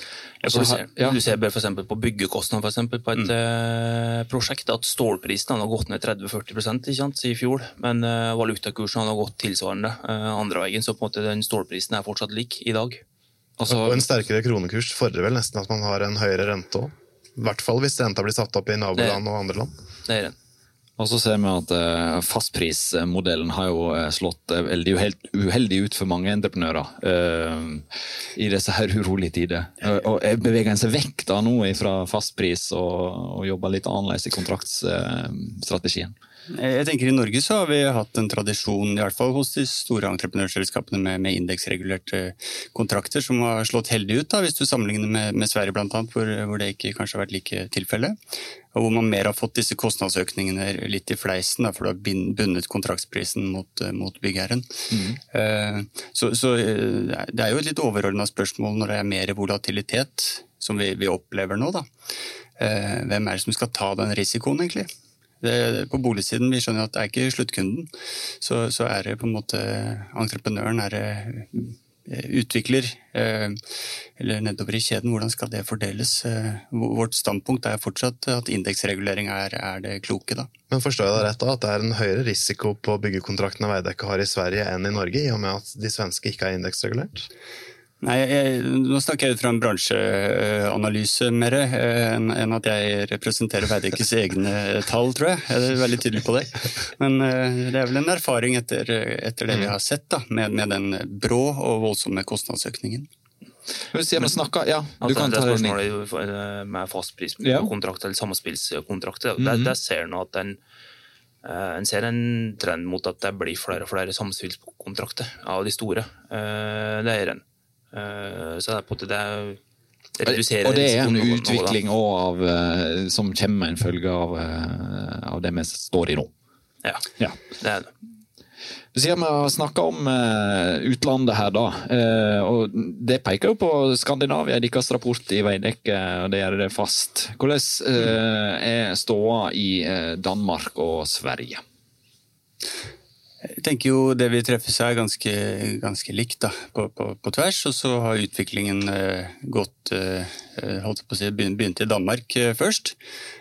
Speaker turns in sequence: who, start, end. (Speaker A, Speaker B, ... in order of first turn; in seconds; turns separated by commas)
Speaker A: 0.4-13.0, Speaker B: 0.4-1.2, Speaker B: 13.6-14.1, Speaker C: 13.7-19.7, Speaker A: 20.1-20.3, Speaker B: 21.0-27.8, Speaker B: 28.4-36.1, Speaker D: 36.5-48.2, Speaker D: 48.7-61.9, Speaker B: 54.9-55.2, Speaker D: 62.6-64.9, Speaker D: 65.4-67.9, Speaker D: 68.4-73.6, Speaker D: 74.2-80.5, Speaker C: 80.7-87.3, Speaker D: 88.0-103.1, Speaker B: 103.9-105.8, Speaker A: 105.0-110.6, Speaker B: 107.4-107.7, Speaker B: 109.4-109.7, Speaker A: 111.4-119.6, Speaker A: 120.2-121.8, Speaker B: 120.2-126.3, Speaker A: 126.8-127.9, Speaker B: 128.9-141.6, Speaker D: 143.6-152.9